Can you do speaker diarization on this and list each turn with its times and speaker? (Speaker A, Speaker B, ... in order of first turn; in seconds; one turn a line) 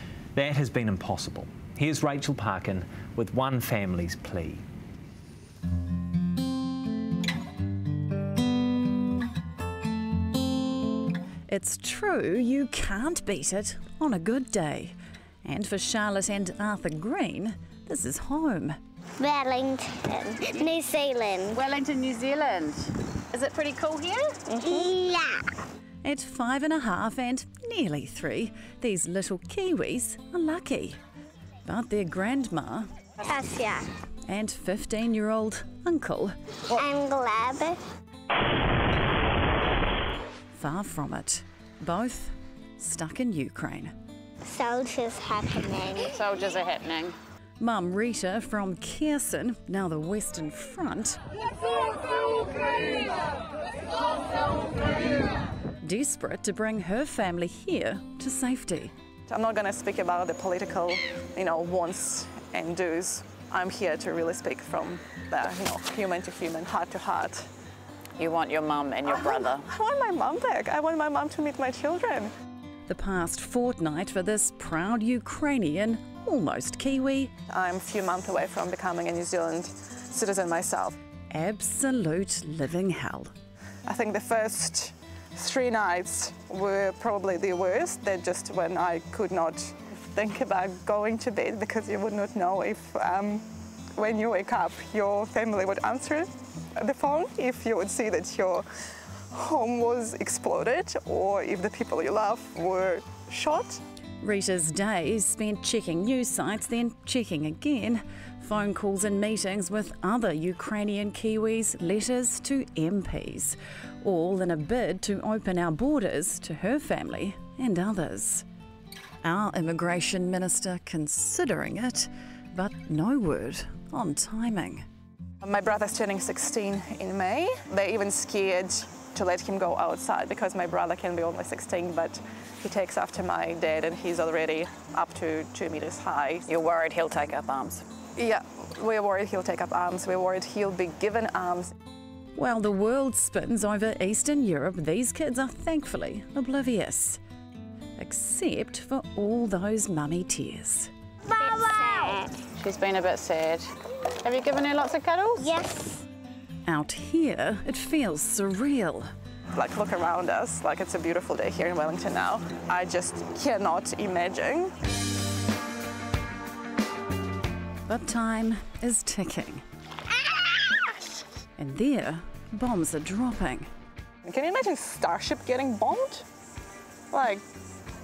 Speaker A: 0.4-4.6
Speaker B: 11.5-18.8
Speaker C: 19.2-21.6
Speaker D: 21.5-24.5
Speaker C: 24.6-25.5
Speaker B: 26.0-31.0
Speaker B: 31.7-32.9
Speaker C: 33.2-33.9
Speaker B: 34.3-36.3
Speaker C: 36.7-37.8
Speaker B: 40.5-43.9
Speaker C: 44.4-46.1
Speaker D: 46.1-47.2
Speaker B: 47.6-51.2
Speaker B: 55.8-58.9
Speaker E: 59.3-67.5
Speaker D: 68.2-69.7
Speaker E: 69.0-72.3
Speaker B: 72.9-77.3
Speaker E: 77.5-81.0
Speaker B: 81.3-83.3
Speaker E: 83.9-93.5
Speaker E: 94.0-98.6
Speaker E: 99.3-103.8
Speaker B: 104.2-118.5
Speaker B: 119.2-124.8
Speaker E: 125.4-136.5
Speaker D: 136.5-137.9
Speaker E: 138.2-141.7
Speaker B: 142.4-147.2
Speaker B: 148.0-150.9
Speaker C: 151.3-152.4
Speaker D: 152.5-153.7
Speaker D: 154.2-155.5
Speaker C: 155.4-156.0
Speaker B: 156.7-159.1
Speaker E: 159.5-164.7
Speaker B: 167.9-169.6
Speaker B: 171.6-173.7
Speaker E: 174.2-176.2
Speaker E: 177.1-177.4